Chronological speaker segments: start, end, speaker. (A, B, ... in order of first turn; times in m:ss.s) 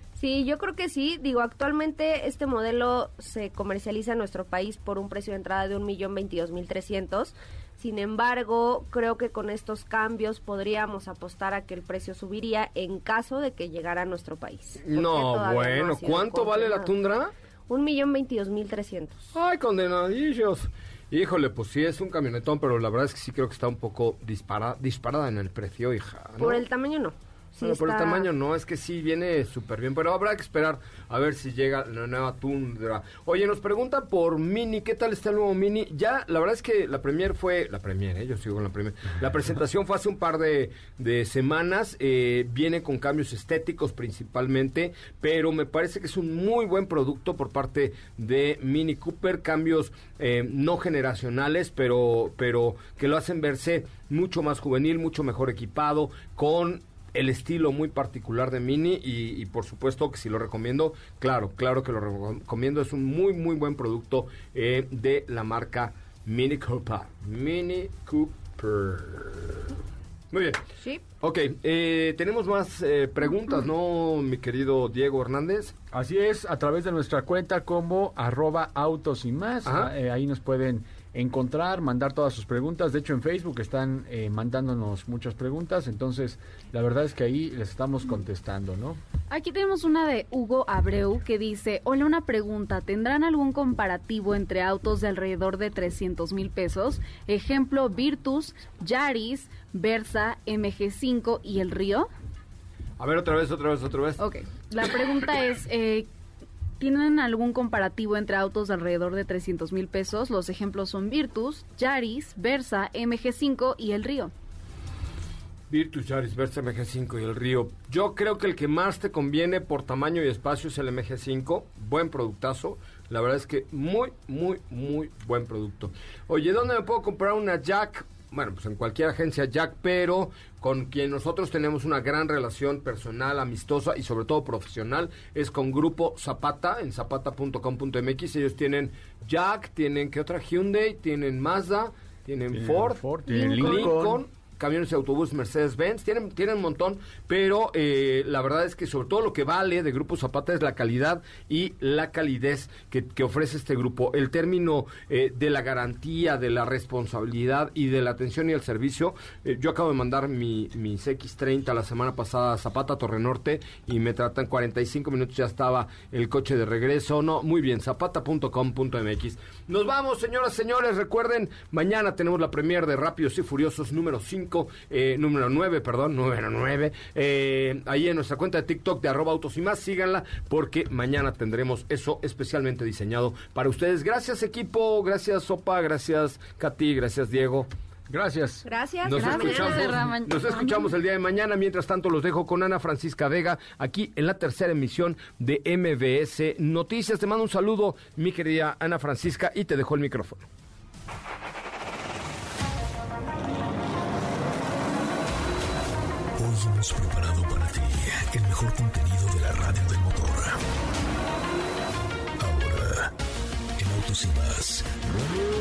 0:00.2-0:16.9 A
0:14.8-0:17.3 B
0:17.7-0:19.2 A
0:19.3-0:26.6 B
0:26.4-0:28.3 A
0:27.6-1:09.6 B
1:10.3-1:10.6 B
1:11.2-1:15.7 B
1:15.9-1:29.0 C
1:19.6-1:19.9 B
1:29.3-1:42.1 D
1:43.0-1:44.2 B
1:44.2-1:46.1 D
1:46.8-1:54.3 D
1:55.7-3:07.7 B
2:22.5-2:24.2 C
3:08.1-3:08.6 C
3:08.6-3:10.0 A
3:09.0-3:20.5 B
3:09.1-3:10.9 D
3:26.4-3:30.6 E
3:32.4-3:33.1 E
3:33.8-3:34.9 E